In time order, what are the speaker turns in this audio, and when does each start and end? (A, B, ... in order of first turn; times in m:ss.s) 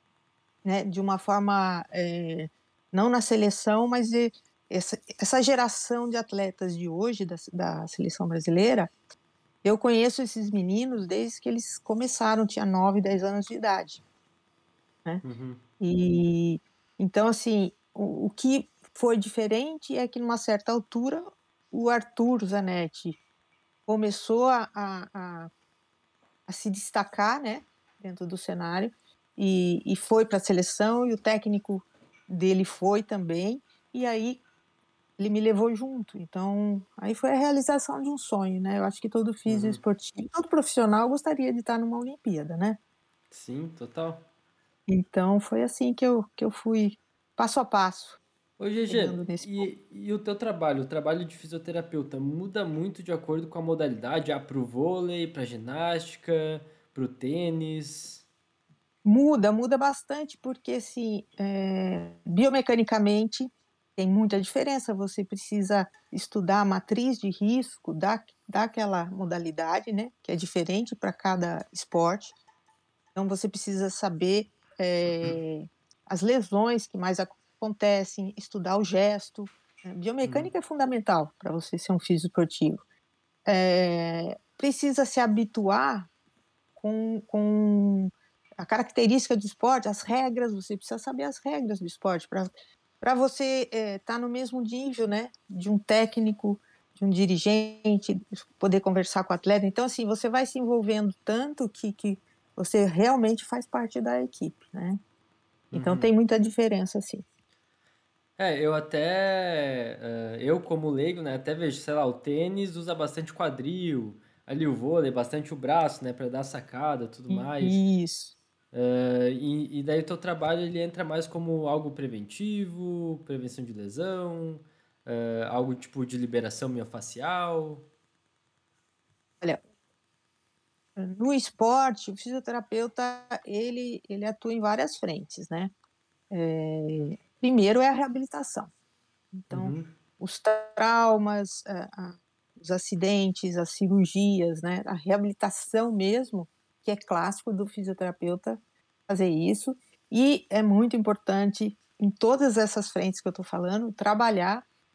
0:00.6-0:08.9 A
0:09.6-0:14.0 A
0:15.2-0:15.6 B
0:15.8-0:23.2 A
0:23.9-0:25.5 A
0:26.5-0:34.4 A
0:35.2-0:42.8 A
0:39.5-0:39.8 B
0:43.3-0:44.2 B
0:44.9-0:48.2 A
0:48.6-0:58.2 B
0:48.9-0:49.7 A
0:59.0-1:12.3 A
1:13.1-1:22.8 A
1:20.2-1:20.5 B
1:23.5-1:26.1 A
1:26.8-1:45.0 A
1:45.7-1:46.1 B
1:45.7-1:47.2 A
1:48.4-1:57.8 B
1:57.3-1:58.3 A
1:58.7-2:07.8 B
2:11.0-2:15.7 A
2:16.3-2:18.7 A
2:19.4-2:34.6 A
2:19.5-2:19.9 B